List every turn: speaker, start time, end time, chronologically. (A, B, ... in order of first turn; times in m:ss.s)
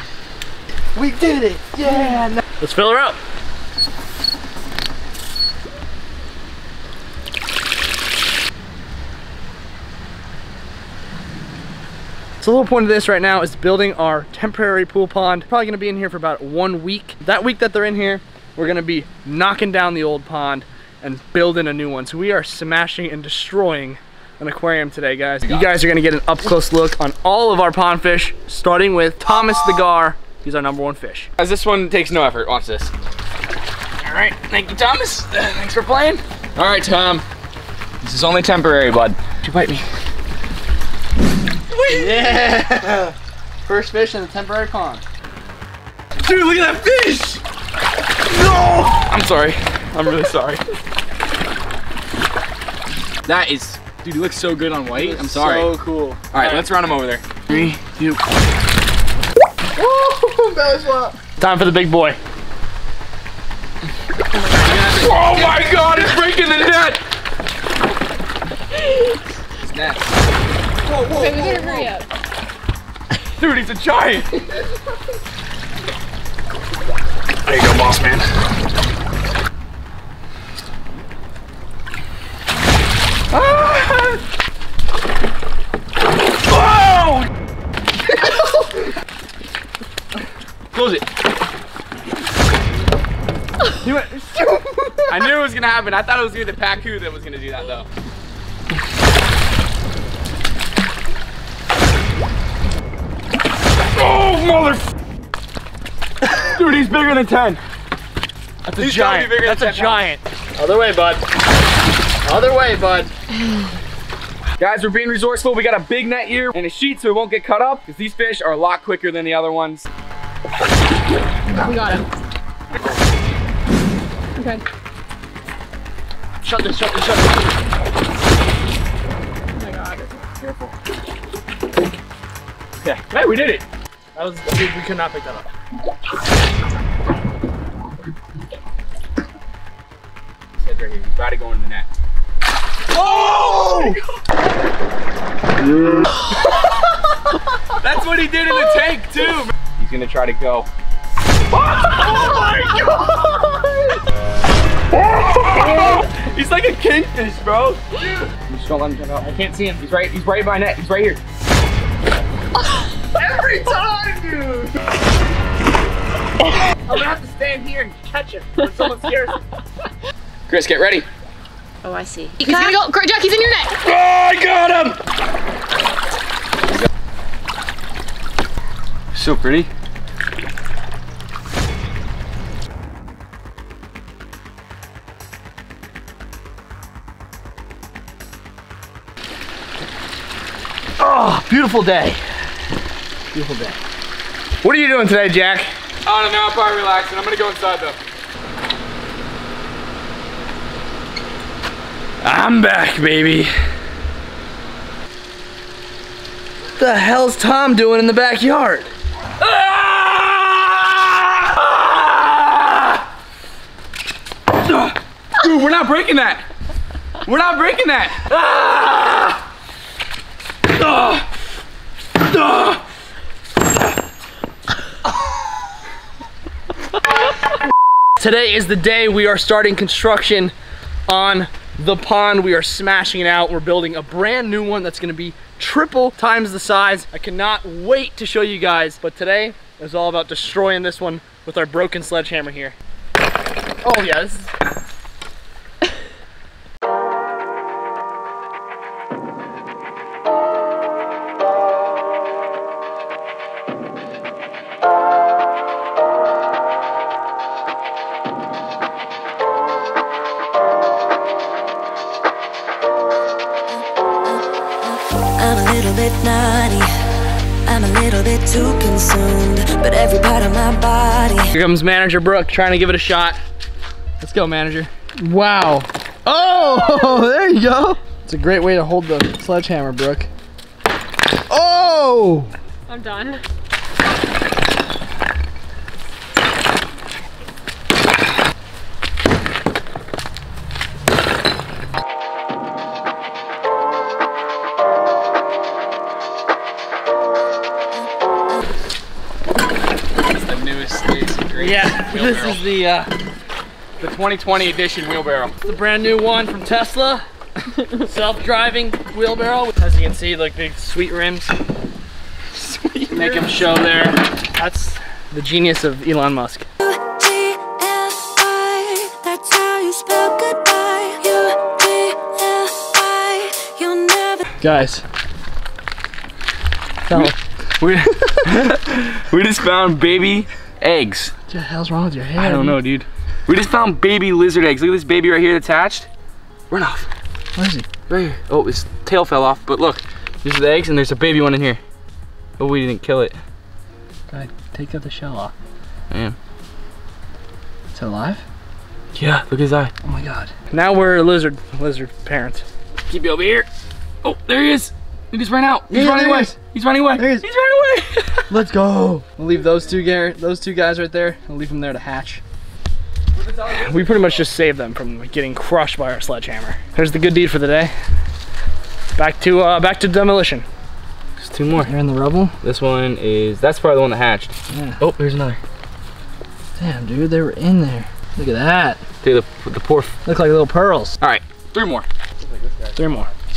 0:00.9-0:03.2 A
0:12.4-0:31.3 A
0:25.4-0:25.7 B
0:31.4-0:32.9 B
0:34.0-0:37.2 B
0:38.0-0:39.8 B
0:41.7-0:42.5 B
0:41.9-0:45.0 A
0:46.2-0:47.4 B
0:48.4-0:48.9 A
0:48.7-0:50.6 B
0:53.2-0:55.7 B
0:54.9-0:56.6 A
0:56.3-0:58.2 B
0:59.8-1:02.2 A
1:04.6-1:05.2 A
1:04.7-1:07.0 B
1:09.6-1:10.1 B
1:10.9-1:11.7 A
1:11.2-1:12.0 C
1:11.2-1:11.9 B
1:13.4-1:14.5 B
1:17.5-1:18.2 B
1:23.3-1:24.2 B
1:26.5-1:27.3 B
1:30.7-1:31.0 B
1:33.8-1:35.1 A
1:35.1-1:37.9 B
1:43.9-1:44.9 B
1:46.2-1:47.6 B
1:48.6-1:51.2 A
1:48.8-1:50.1 B
1:52.2-1:53.1 A
1:54.6-1:59.9 B
2:01.6-2:02.0 C
2:04.4-2:04.6 C
2:06.4-2:07.5 A
2:09.6-2:10.3 C
2:10.4-2:10.7 B
2:12.8-2:13.6 B
2:14.1-2:15.5 A
2:20.6-2:21.9 B
2:22.9-2:24.0 B
2:23.0-2:24.0 A
2:27.8-2:30.7 B
2:31.5-2:33.1 B
2:32.2-2:33.4 A
2:34.9-2:37.8 B
2:38.3-2:41.2 B
2:39.2-2:39.7 A
2:43.1-2:44.8 A
2:46.8-2:49.4 A
2:50.5-2:51.1 B
2:51.8-2:53.8 C
2:53.8-2:55.0 B
2:59.1-2:59.7 B
3:11.0-3:12.2 A
3:13.3-3:13.8 A
3:14.6-3:15.7 A
3:16.0-3:18.0 B
3:22.2-3:23.5 B
3:26.8-3:28.9 A
3:29.4-3:33.0 B
3:34.6-3:36.4 B
3:37.2-3:39.4 B
3:40.7-3:41.2 B
3:42.2-3:42.8 B
3:48.2-3:50.5 A
3:51.1-4:02.8 A
4:03.8-4:04.5 A
4:24.2-4:26.9 D
4:27.7-4:31.5 D
4:31.5-4:33.4 A
4:34.2-4:40.3 A
4:41.5-4:42.5 A
4:42.9-4:43.4 C
5:00.3-5:02.6 B
5:01.6-5:03.1 A
5:04.0-5:05.6 B
5:05.6-5:07.2 A
5:07.7-5:11.5 A
5:12.5-5:13.7 B
5:13.1-5:16.7 A
5:16.8-5:24.4 D
5:24.6-5:25.0 A
5:27.1-5:27.3 A
5:27.1-5:31.3 B
5:31.5-5:32.8 A
5:32.4-5:36.1 B
5:36.7-5:37.1 B
5:37.6-5:37.9 A
5:38.1-5:41.8 B
5:42.6-5:43.4 B
5:44.3-5:45.5 A
5:46.1-5:46.4 B
5:47.9-5:48.4 A
5:49.1-5:49.9 B
5:50.0-5:52.6 A
5:53.1-5:53.7 B
5:54.2-5:58.5 B
5:55.9-5:56.6 A
5:57.2-5:57.4 A
5:58.5-6:02.4 A
6:03.3-6:04.5 B
6:03.7-6:07.9 A
6:09.2-6:10.6 A
6:11.4-6:11.9 B
6:11.8-6:12.5 A
6:12.6-6:15.6 B
6:14.7-6:15.0 A
6:16.8-6:19.0 A
6:19.2-6:20.1 B
6:20.2-6:21.2 A
6:21.2-6:23.0 B
6:23.0-6:23.3 A